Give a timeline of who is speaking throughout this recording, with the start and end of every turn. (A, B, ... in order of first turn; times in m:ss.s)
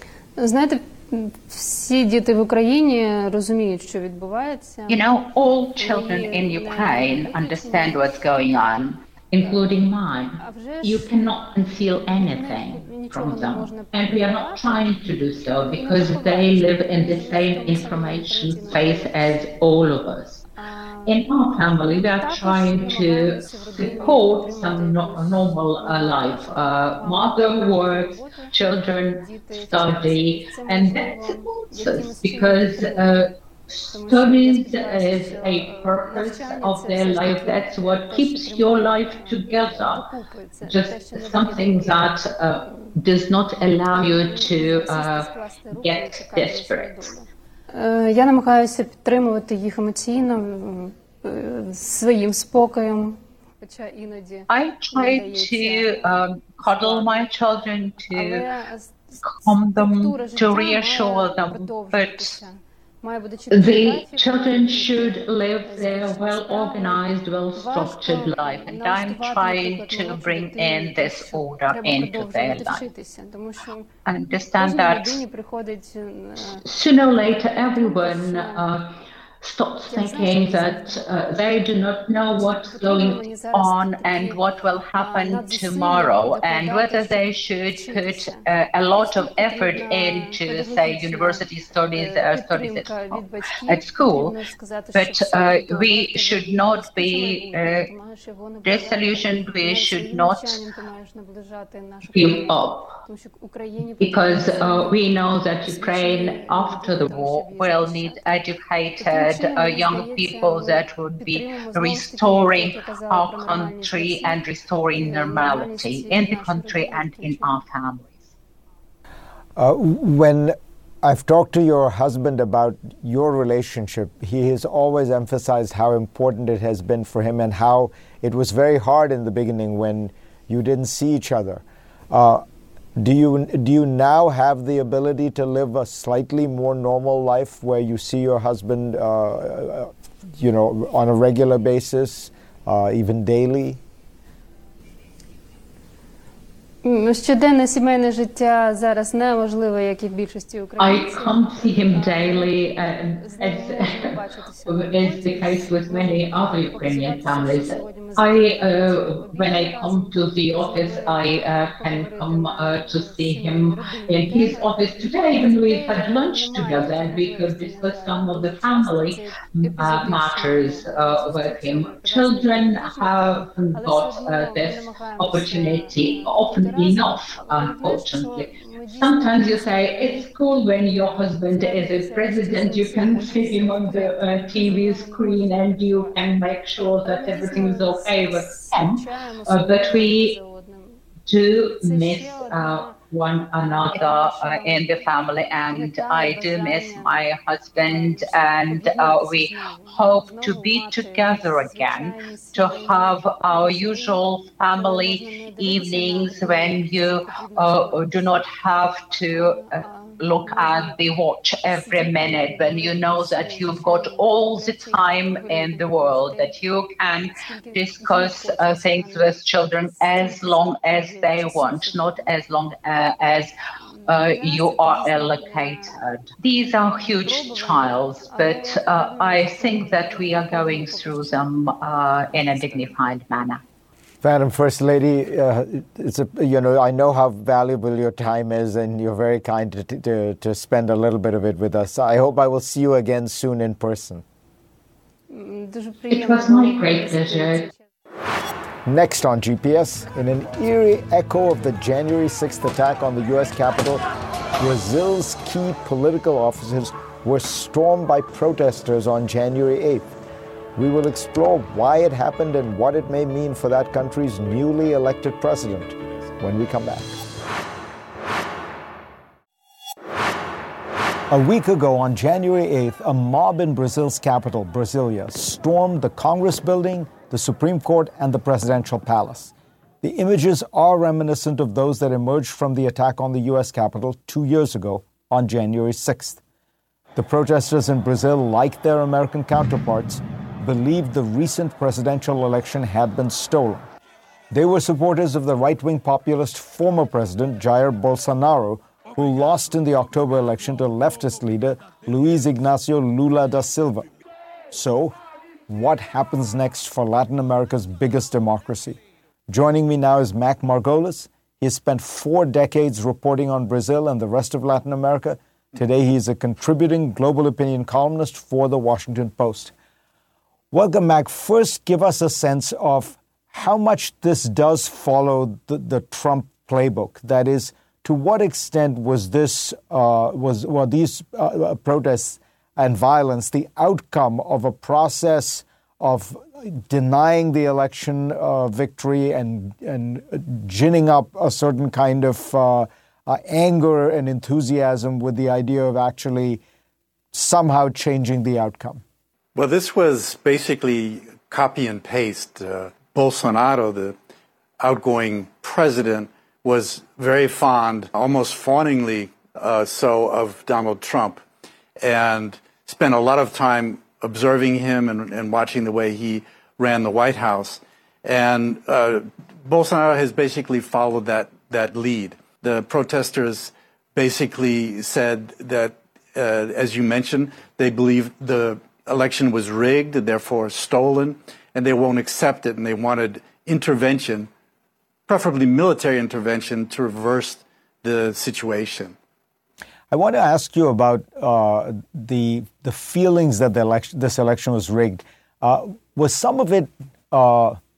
0:00.4-0:05.1 A
0:04.9-0:20.4 B
0:05.8-0:08.6 A
0:09.4-0:09.7 A
0:10.4-0:11.2 A
0:12.1-0:14.9 A
0:15.7-0:19.4 A
0:20.6-0:21.3 A
0:21.1-0:40.1 B
0:21.8-0:33.3 A
0:33.9-0:43.0 A
0:40.7-0:45.3 B
0:43.9-0:57.3 A
0:45.8-0:47.1 B
0:54.5-0:58.4 B
0:58.1-1:13.9 A
0:59.2-1:02.4 B
1:03.5-1:12.9 B
1:14.1-1:15.2 B
1:14.6-1:16.6 A
1:16.6-1:18.9 B
1:17.8-1:18.6 A
1:19.4-1:34.4 B
1:19.9-1:21.6 A
1:22.4-1:24.4 A
1:25.0-1:28.4 A
1:29.0-1:45.0 A
1:35.0-1:37.9 B
1:38.6-1:40.6 B
1:42.1-1:43.0 B
1:44.0-1:58.3 B
1:45.6-1:48.5 A
1:49.0-1:54.4 A
1:54.9-1:57.6 A
1:59.6-2:12.4 C
2:13.0-2:23.8 C
2:26.8-3:06.4 A
2:30.8-3:10.4 B
3:07.0-3:11.0 A
3:11.3-3:43.5 B
3:11.8-3:13.0 A
3:13.8-3:15.1 A
3:15.7-3:28.4 A
3:29.3-3:31.0 A
3:31.7-3:42.4 A
3:43.8-3:46.0 A
3:44.1-3:53.6 B
3:46.9-3:53.1 A
3:54.2-4:04.2 C
4:05.3-4:07.8 A
4:06.1-4:07.6 B
4:08.8-4:14.0 C
4:14.6-4:20.1 C
4:20.8-4:27.2 C
4:31.3-4:46.4 C
4:47.2-4:53.9 C
4:54.5-5:04.1 C
5:04.7-5:05.2 C
5:05.7-5:19.7 C
5:20.7-5:46.6 C
5:47.3-5:49.0 C
5:49.6-5:54.2 D
5:54.8-6:01.4 D
6:02.0-6:24.5 D
6:25.3-6:29.2 D
6:30.1-6:37.8 C